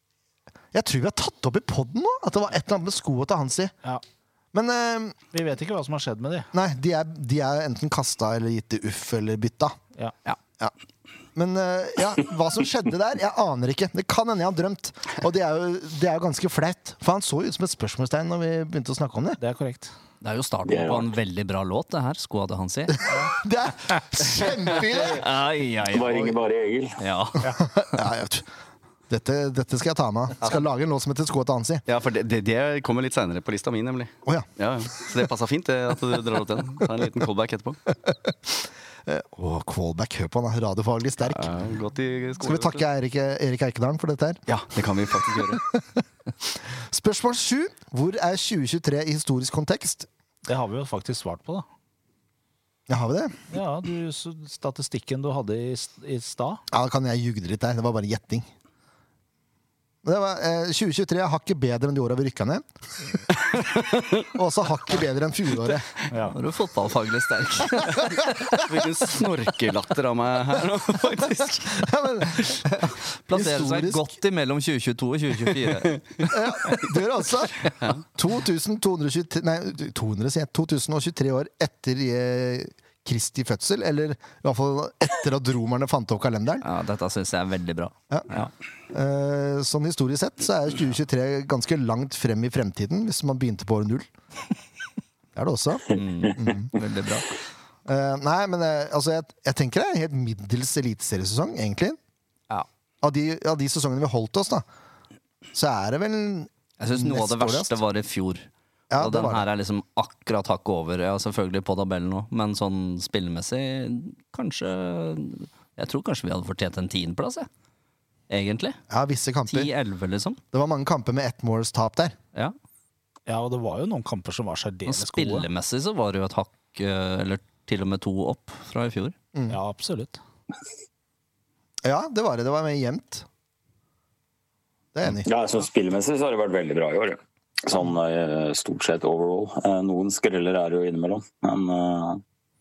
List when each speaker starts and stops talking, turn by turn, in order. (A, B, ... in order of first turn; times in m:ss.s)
0:00.7-0:03.7 A
0:04.5-0:05.2 A
0:05.3-0:06.5 B
0:06.5-0:09.8 A
0:11.3-0:19.4 A
0:19.4-0:19.9 B
0:20.2-0:23.0 C
0:20.7-0:21.1 D
0:22.9-0:25.2 A
0:24.9-0:26.3 C
0:25.9-0:27.0 D
0:27.0-0:27.5 C
0:27.5-0:28.5 A
0:29.1-0:31.8 A
0:31.9-0:37.8 E
0:38.0-0:41.5 A
0:41.2-0:42.8 E
0:42.4-0:44.4 A
0:44.5-0:45.6 E
0:45.4-0:50.1 A
0:50.4-0:51.6 B
0:52.9-0:53.4 A
0:53.5-0:56.6 B
0:56.7-0:58.5 A
1:00.0-1:03.2 A
1:03.3-1:04.2 E
1:04.2-1:05.9 A
1:06.1-1:06.4 B
1:06.3-1:08.4 C
1:08.5-1:11.9 E
1:11.7-1:14.1 A
1:13.3-1:16.3 C
1:16.3-1:26.6 A
1:26.6-1:28.5 C
1:28.9-1:34.1 A
1:35.4-1:36.7 A
1:35.9-1:37.4 C
1:37.8-1:42.0 A
1:43.0-1:44.6 A
1:45.5-1:47.8 A
1:46.8-1:57.5 C
1:48.9-1:49.5 A
1:58.3-1:58.8 C
1:58.9-1:59.7 A
1:59.5-2:00.4 C
2:00.5-2:02.2 A
2:03.3-2:05.5 B
2:04.8-2:09.1 C
2:09.3-2:09.6 A
2:09.5-2:10.2 B
2:11.8-2:13.2 A
2:14.9-2:15.3 A
2:15.2-2:22.2 D